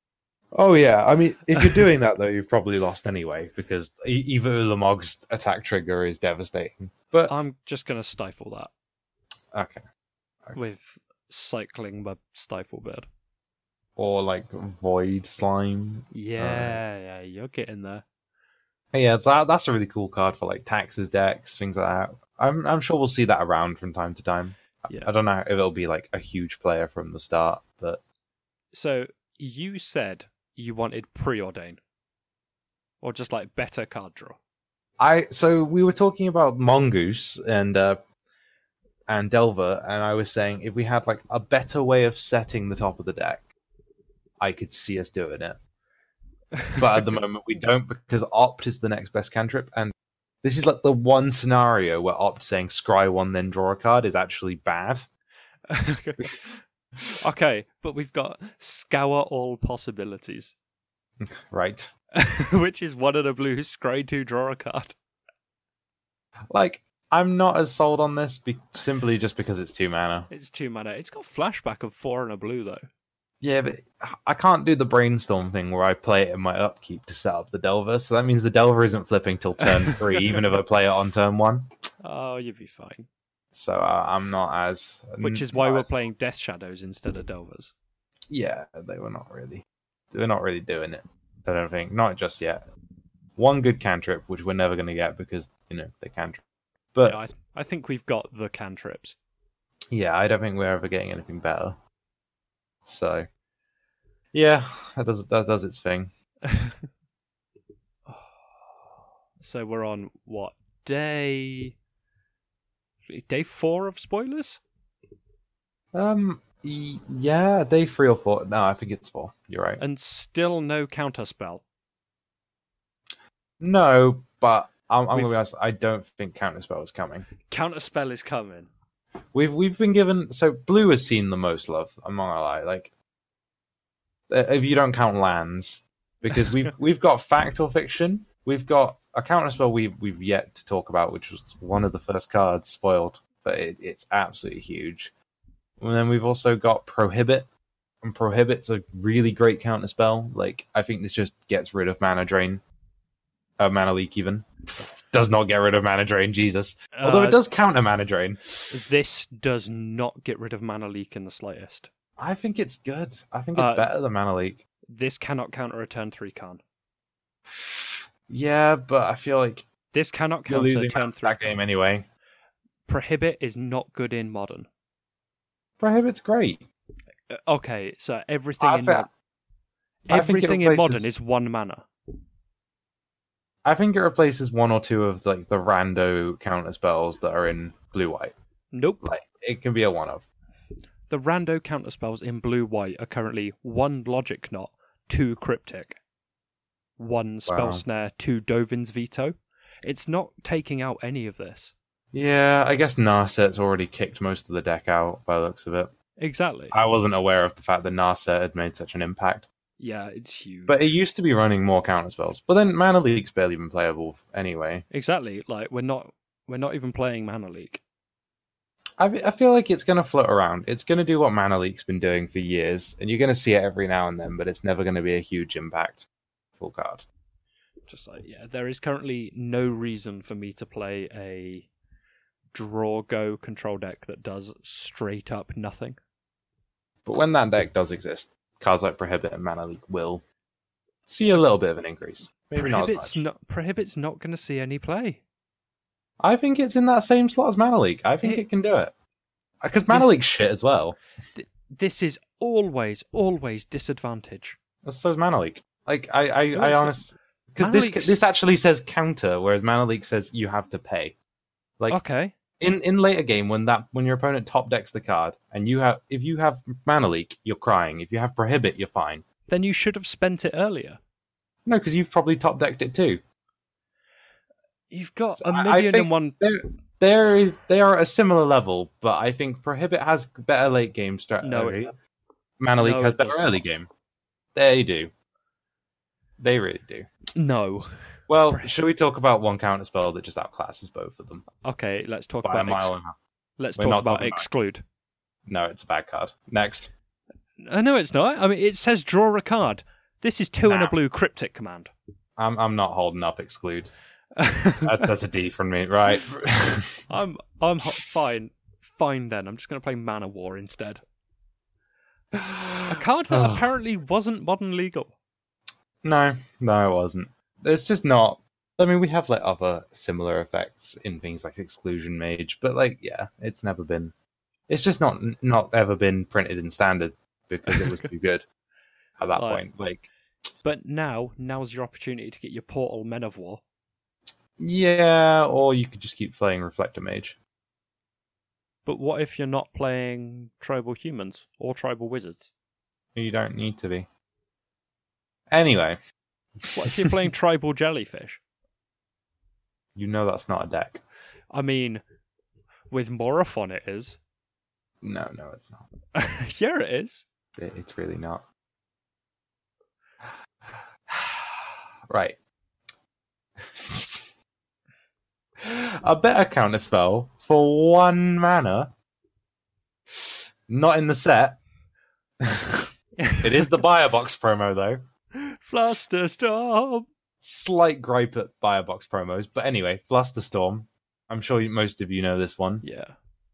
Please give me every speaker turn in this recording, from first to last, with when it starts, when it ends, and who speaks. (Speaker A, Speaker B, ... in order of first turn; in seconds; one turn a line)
Speaker A: 0.5-7.4
Speaker B: 7.3-8.7
Speaker A: 9.5-9.8
Speaker B: 10.5-13.1
Speaker A: 14.0-16.8
Speaker B: 16.1-18.0
Speaker A: 18.9-28.0
Speaker B: 28.7-31.8
Speaker B: 33.0-34.4
Speaker A: 35.0-38.0
Speaker A: 39.1-43.5
Speaker A: 44.4-45.6
Speaker B: 46.6-47.0
Speaker A: 46.8-55.1
Speaker B: 55.7-56.5
Speaker B: 57.2-60.5
Speaker A: 61.2-61.9
Speaker B: 62.1-64.9
Speaker A: 66.5-70.3
Speaker B: 70.3-72.8
Speaker A: 73.4-81.7
Speaker B: 79.8-80.4
Speaker B: 82.0-83.1
Speaker A: 83.5-86.0
Speaker B: 85.2-87.7
Speaker A: 88.3-92.6
Speaker A: 93.4-96.4
Speaker A: 96.9-97.2
Speaker B: 97.0-99.2
Speaker A: 99.9-101.8
Speaker A: 102.8-103.3
Speaker A: 104.3-106.1
Speaker B: 106.5-106.8
Speaker B: 109.4-111.8
Speaker B: 113.1-114.6
Speaker A: 115.9-119.8
Speaker B: 119.8-121.6
Speaker A: 123.6-127.3
Speaker B: 125.1-125.4
Speaker B: 127.5-128.7
Speaker A: 129.3-132.9
Speaker A: 134.3-145.1
Speaker A: 145.8-147.5
Speaker A: 148.0-152.6
Speaker A: 153.6-158.8
Speaker B: 156.9-157.4
Speaker B: 158.7-161.9
Speaker A: 162.2-164.6
Speaker B: 163.6-163.9
Speaker B: 164.9-166.6
Speaker A: 167.5-169.7
Speaker B: 169.9-171.6
Speaker A: 170.5-172.0
Speaker B: 172.9-174.7
Speaker A: 175.8-176.6
Speaker B: 177.3-179.1
Speaker A: 178.6-179.1
Speaker A: 180.1-181.1
Speaker B: 180.1-181.8
Speaker A: 183.6-188.3
Speaker B: 188.7-189.1
Speaker A: 189.0-190.3
Speaker B: 191.1-196.0
Speaker B: 197.0-201.7
Speaker A: 197.5-197.8
Speaker A: 202.1-205.9
Speaker B: 206.2-206.7
Speaker A: 206.7-209.5
Speaker B: 209.8-210.9
Speaker A: 210.7-214.8
Speaker B: 214.9-217.8
Speaker A: 219.0-226.1
Speaker A: 226.6-227.1
Speaker B: 227.9-231.7
Speaker B: 232.5-236.0
Speaker A: 237.0-240.2
Speaker A: 241.1-243.2
Speaker B: 242.5-245.2
Speaker A: 246.2-248.9
Speaker A: 249.6-251.0
Speaker B: 249.9-250.2
Speaker B: 251.3-254.6
Speaker A: 254.8-261.2
Speaker B: 256.5-257.0
Speaker B: 257.6-258.2
Speaker B: 261.9-262.3
Speaker A: 262.6-269.2
Speaker B: 269.5-271.0
Speaker A: 271.6-273.2
Speaker B: 274.9-276.4
Speaker A: 275.3-281.9
Speaker B: 281.4-281.9
Speaker A: 282.6-283.9
Speaker B: 282.8-283.6
Speaker A: 284.5-285.1
Speaker A: 286.4-287.1
Speaker B: 287.3-287.9
Speaker A: 288.3-291.4
Speaker B: 291.6-292.9
Speaker A: 292.4-293.1
Speaker B: 293.6-294.8
Speaker A: 293.8-294.4
Speaker A: 295.5-296.9
Speaker B: 297.6-301.9
Speaker A: 300.6-300.9
Speaker A: 302.4-303.9
Speaker B: 304.4-305.1
Speaker A: 304.8-307.1
Speaker B: 307.1-311.0
Speaker A: 312.3-313.6
Speaker B: 312.9-315.1
Speaker A: 316.0-324.1
Speaker A: 324.7-328.4
Speaker B: 327.7-328.1
Speaker A: 329.2-330.1
Speaker B: 329.4-329.6
Speaker B: 330.6-333.6
Speaker A: 334.6-337.4
Speaker B: 338.9-342.5
Speaker A: 343.1-344.1
Speaker A: 345.5-346.0
Speaker A: 346.6-347.1
Speaker B: 346.7-348.4
Speaker A: 349.9-351.0
Speaker B: 351.5-352.0
Speaker B: 352.9-354.2
Speaker A: 355.0-355.8
Speaker B: 356.1-357.2
Speaker A: 357.6-358.4
Speaker A: 360.3-362.4
Speaker A: 363.6-364.3
Speaker A: 365.6-368.9
Speaker A: 370.1-371.6
Speaker A: 372.4-372.9
Speaker B: 373.2-373.8
Speaker A: 373.4-375.0
Speaker B: 375.3-377.1
Speaker A: 377.4-382.8
Speaker B: 382.8-383.1